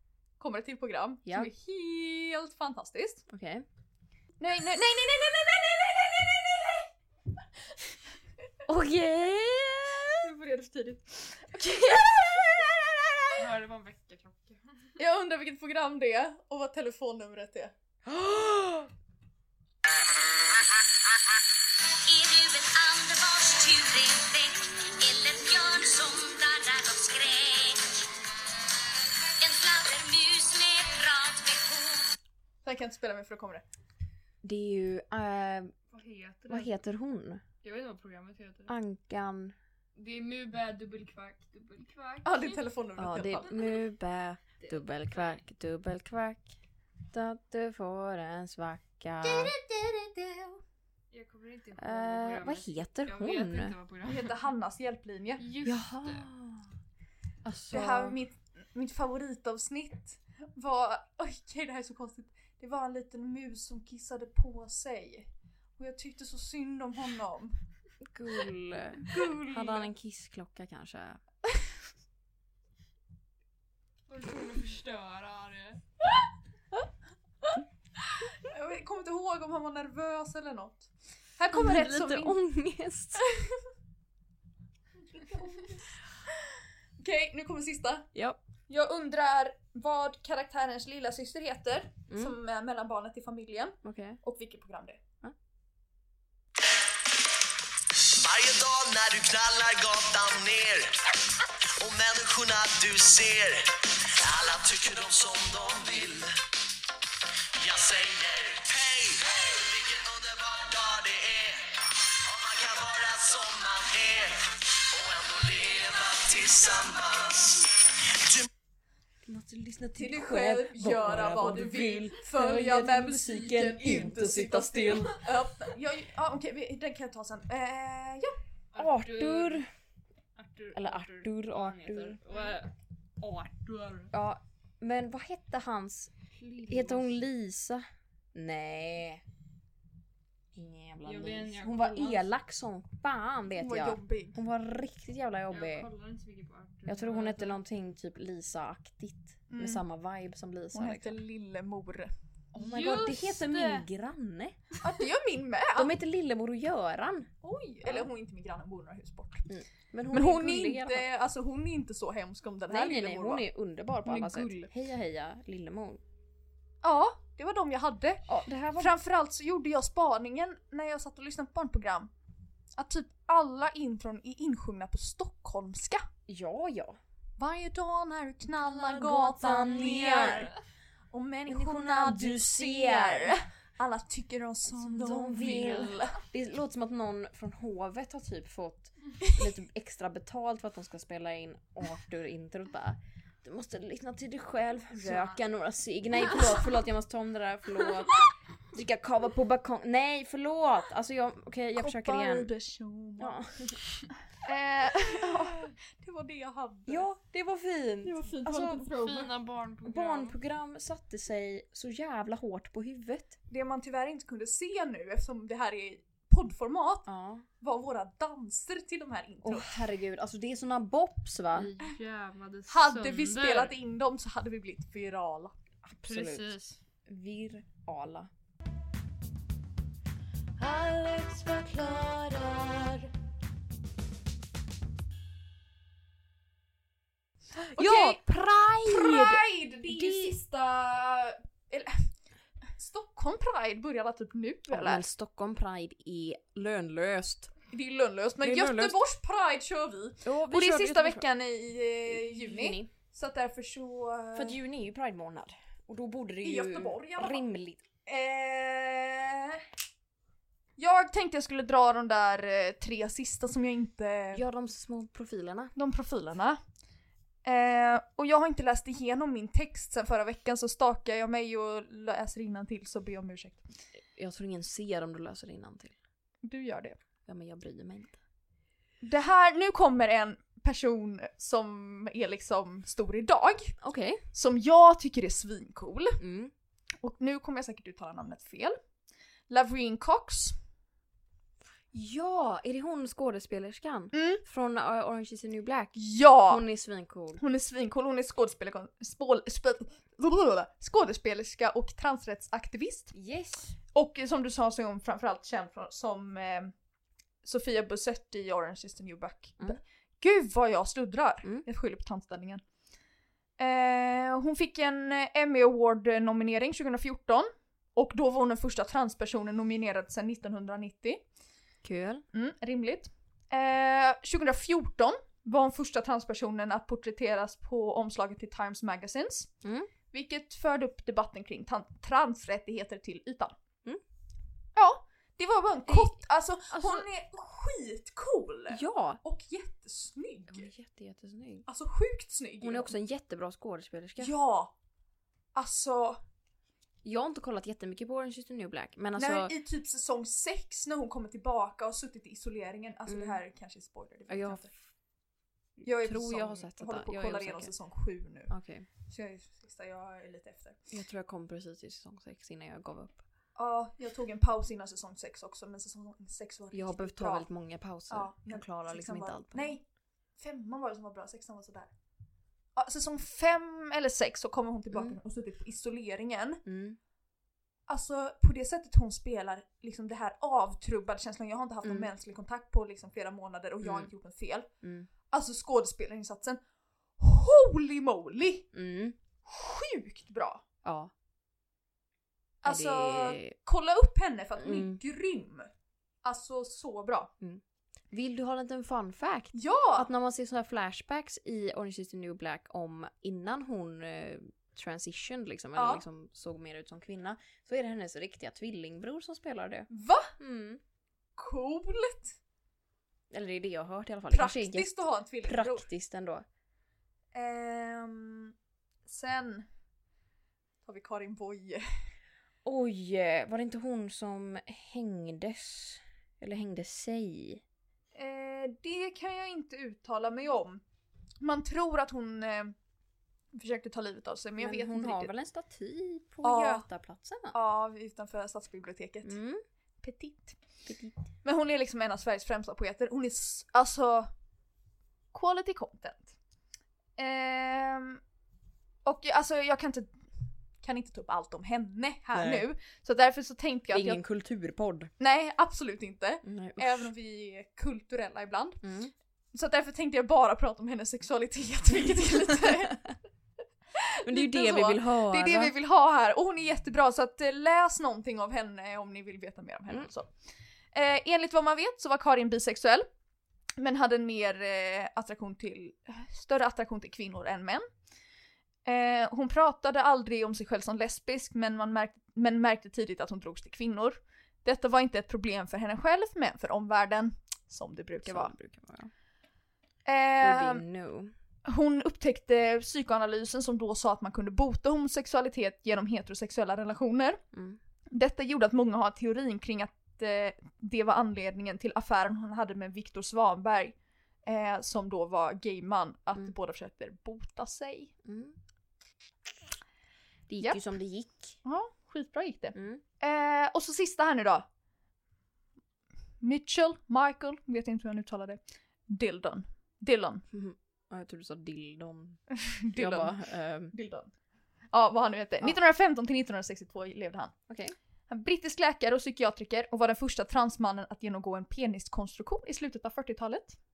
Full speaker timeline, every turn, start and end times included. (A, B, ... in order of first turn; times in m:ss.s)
0:00.4-0:03.2 A
0:01.2-0:01.5 B
0:03.3-0:03.6 B
0:04.4-0:06.9 A
0:08.7-0:10.2 B
0:10.2-0:12.7 A
0:13.3-0:15.0 C
0:15.0-0:17.7 A
0:18.1-0:18.9 B
0:22.1-0:27.9 D
0:29.4-0:32.0 D
0:32.6-0:33.6 A
0:34.4-0:35.7 B
0:35.9-0:36.8 C
0:36.5-0:37.4 B
0:37.6-0:38.7 C
0:38.7-0:39.6 B
0:40.0-0:42.6 C
0:42.2-0:43.7 A
0:43.0-0:46.5 B
0:44.6-0:45.4 C
0:47.1-0:49.5 B
0:49.6-0:50.6 A
0:51.1-0:54.5 C
0:51.8-0:53.8 B
0:54.0-0:55.4 A
0:55.4-0:56.3 C
0:55.6-0:56.7 B
0:57.4-0:58.2 B
0:57.7-1:07.6 A
1:08.0-1:11.2 B
1:09.1-1:09.8 A
1:14.1-1:15.8 C
1:18.3-1:22.4 A
1:21.5-1:23.2 B
1:23.2-1:23.6 A
1:25.1-1:28.1 A
1:28.2-1:28.4 B
1:28.7-1:35.0 A
1:32.1-1:32.4 B
1:33.8-1:34.2 B
1:38.1-1:41.1 E
1:41.6-1:46.3 E
1:47.6-1:58.5 E
1:59.3-2:05.2 B
2:00.0-2:08.4 A
2:08.7-2:09.6 C
2:08.8-2:09.7 B
2:10.4-2:14.1 C
2:10.7-2:12.2 B
2:14.1-2:16.1 B
2:16.3-2:17.2 C
2:16.7-2:19.2 B
2:20.6-2:25.9 B
2:21.0-2:22.3 C
2:23.6-2:24.4 A
2:25.5-2:27.6 C
2:26.9-2:31.2 B
2:29.5-2:29.8 A
2:30.7-2:32.1 A
2:32.5-2:34.6 B
2:32.6-2:33.9 C
2:34.8-2:35.9 A
2:35.8-2:37.3 B
2:37.4-2:39.5 A
2:39.5-2:41.1 B
2:40.1-2:43.5 A
2:42.7-2:46.0 B
2:44.0-2:44.7 A
2:46.8-2:52.1 A
2:48.3-2:48.9 B
2:52.8-2:56.0 A
2:56.3-2:57.0 B
2:57.4-3:00.5 A
2:58.6-3:00.5 B
3:01.1-3:06.2 A
3:01.5-3:03.4 B
3:04.8-3:22.5 B
3:15.0-3:15.4 A
3:21.8-3:23.4 A
3:23.2-3:23.8 B
3:24.4-3:27.1 A
3:26.9-3:28.9 B
3:28.0-3:29.3 A
3:28.8-3:30.4 C
3:29.8-3:33.4 B
3:33.5-3:37.1 A
3:37.1-3:37.5 B
3:37.6-3:39.9 A
3:39.4-3:41.7 B
3:41.6-3:43.7 C
3:42.7-3:45.5 A
3:45.8-3:46.6 B
3:46.1-3:46.8 C
3:47.1-3:48.3 B
3:50.6-3:53.1 D
3:57.6-4:00.4 B
3:57.7-3:58.2 A
3:58.8-4:02.1 A
4:02.7-4:05.0 A
4:04.7-4:07.5 B
4:07.7-4:14.6 A
4:08.4-4:09.0 B
4:10.2-4:11.2 B
4:12.1-4:12.9 B
4:14.4-4:17.8 B
4:16.4-4:17.5 A
4:18.1-4:19.6 A
4:20.8-4:24.4 A
4:24.3-4:25.7 B
4:25.8-4:26.6 A
4:27.4-4:33.6 A
4:34.2-4:36.0 B
4:36.4-4:37.0 A
4:37.3-4:38.2 B
4:39.0-4:43.8 A
4:43.8-4:44.2 B
4:44.3-4:46.2 A
4:46.2-4:46.5 B
4:47.0-4:48.8 A
4:49.5-4:50.6 A
4:51.9-4:57.4 B
4:54.1-4:54.4 A
4:56.0-4:56.6 A
4:57.4-5:03.1 A
5:03.1-5:03.8 B
5:03.9-5:06.7 A
5:07.4-5:12.6 A
5:13.6-5:21.2 A
5:21.8-5:22.2 B
5:22.3-5:29.5 A
5:29.6-5:29.9 B
5:30.1-5:33.5 A
5:34.8-5:40.7 A
5:35.9-5:36.2 B
5:36.7-5:37.1 B
5:38.7-5:39.2 B
5:40.5-5:41.7 B
5:41.7-5:42.9 A
5:42.6-5:44.3 B
5:44.2-5:44.7 A
5:45.6-5:46.2 A
5:47.0-5:49.5 B
5:49.2-5:54.7 A
5:53.1-5:53.4 B
5:54.3-5:54.7 B
5:55.8-5:57.7 B
5:55.8-5:58.5 A
5:58.5-5:58.9 B
5:59.0-6:00.8 A
6:00.9-6:03.2 B
6:03.6-6:07.5 A
6:06.7-6:09.8 B
6:08.1-6:09.8 A
6:10.4-6:11.9 A
6:12.8-6:16.6 A
6:14.9-6:15.2 B
6:16.6-6:17.0 B
6:17.9-6:24.7 A
6:23.8-6:24.1 B
6:24.8-6:25.1 B
6:25.3-6:26.6 A
6:27.2-6:28.7 A
6:28.7-6:29.2 B
6:29.5-6:30.6 A
6:30.8-6:31.1 B
6:32.6-6:35.7 A
6:32.6-6:33.6 B
6:34.6-6:35.0 B
6:36.2-6:37.3 A
6:37.4-6:50.8 B
6:39.5-6:40.1 A
6:45.8-6:46.0 A
6:49.9-6:50.3 A
6:51.4-6:52.4 A
6:53.3-6:56.4 B
6:54.3-6:55.9 A
6:57.3-6:58.6 A
6:59.1-6:59.7 A
7:00.8-7:01.8 A
7:02.6-7:07.6 B
7:08.1-7:10.8 A
7:11.4-7:12.8 A
7:13.5-7:15.3 A
7:14.6-7:17.6 B
7:16.4-7:16.9 A
7:17.5-7:19.4 A
7:19.2-7:19.6 B
7:20.0-7:20.6 A
7:20.9-7:21.2 B
7:21.4-7:24.3 A
7:25.3-7:26.3 A
7:27.2-7:28.2 A
7:29.0-7:30.1 A
7:30.8-7:34.2 A
7:32.3-7:32.7 B
7:33.9-7:35.1 B
7:35.2-7:38.8 A
7:36.4-7:37.1 B
7:38.8-7:39.1 B
7:39.5-7:43.0 A
7:44.0-7:50.3 A
7:44.2-7:45.7 B
7:50.9-7:53.1 A
7:53.8-7:57.9 A
7:58.8-8:08.5 A
8:08.2-8:09.1 B
8:10.0-8:10.8 A
8:10.4-8:11.3 B
8:11.7-8:17.4 A
8:17.5-8:17.8 B
8:18.1-8:28.1 A
8:28.2-8:28.6 B
8:30.5-8:31.6 B
8:31.6-8:34.7 A
8:32.8-8:33.0 B
8:36.4-8:40.4 A
8:40.5-8:42.4 B
8:42.5-8:43.4 A
8:42.9-8:43.9 B
8:43.9-8:44.3 A
8:44.9-8:47.5 A
8:47.7-8:48.0 B
8:48.3-8:53.8 A